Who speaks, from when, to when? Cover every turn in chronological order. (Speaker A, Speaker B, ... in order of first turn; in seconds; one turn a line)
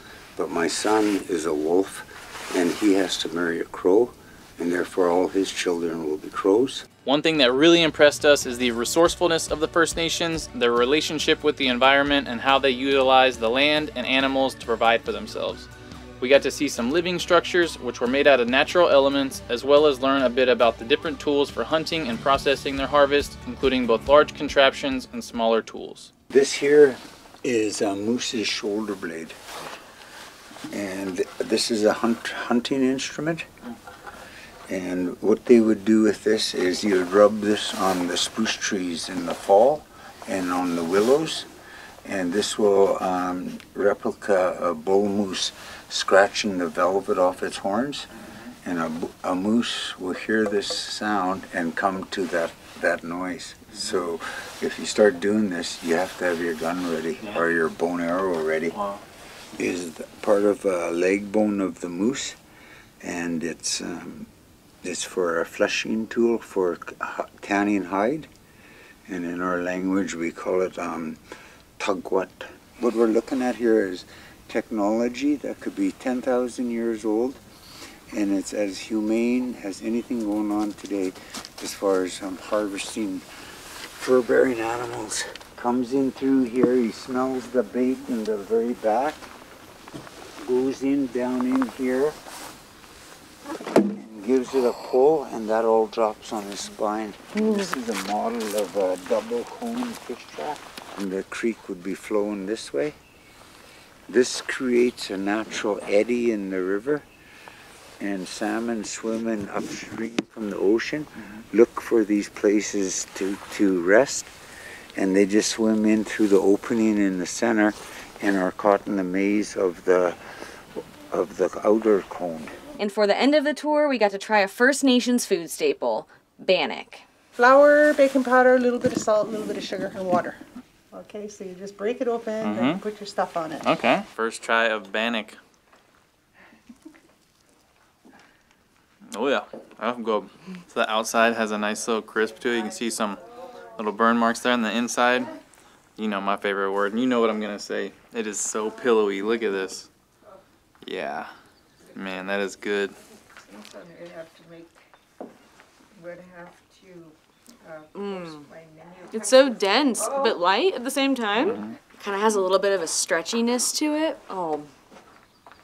Speaker A: 0.4-6.9
Speaker B: 7.0-15.7
Speaker B: 16.2-26.1
Speaker A: 26.3-29.4
Speaker A: 30.7-33.5
Speaker A: 34.7-41.5
Speaker A: 42.0-48.1
Speaker A: 48.6-58.8
Speaker B: 58.7-59.0
Speaker A: 59.6-62.4
Speaker A: 63.0-64.3
Speaker A: 64.8-68.3
Speaker A: 69.1-71.2
Speaker A: 71.8-77.4
Speaker A: 78.1-83.2
Speaker A: 83.9-89.3
Speaker A: 90.4-92.2
Speaker A: 93.7-103.0
Speaker C: 97.4-97.7
Speaker A: 104.1-107.1
Speaker A: 108.0-114.3
Speaker A: 115.0-120.2
Speaker A: 120.8-122.5
Speaker C: 122.8-127.0
Speaker D: 127.4-130.4
Speaker D: 130.9-133.7
Speaker B: 132.4-132.8
Speaker B: 133.6-135.4
Speaker B: 139.1-143.2
Speaker B: 143.8-145.3
Speaker B: 146.0-149.9
Speaker B: 150.8-151.3
Speaker B: 151.9-152.9
Speaker D: 153.4-154.8
Speaker D: 156.0-160.4
Speaker C: 157.9-158.5
Speaker C: 159.1-164.7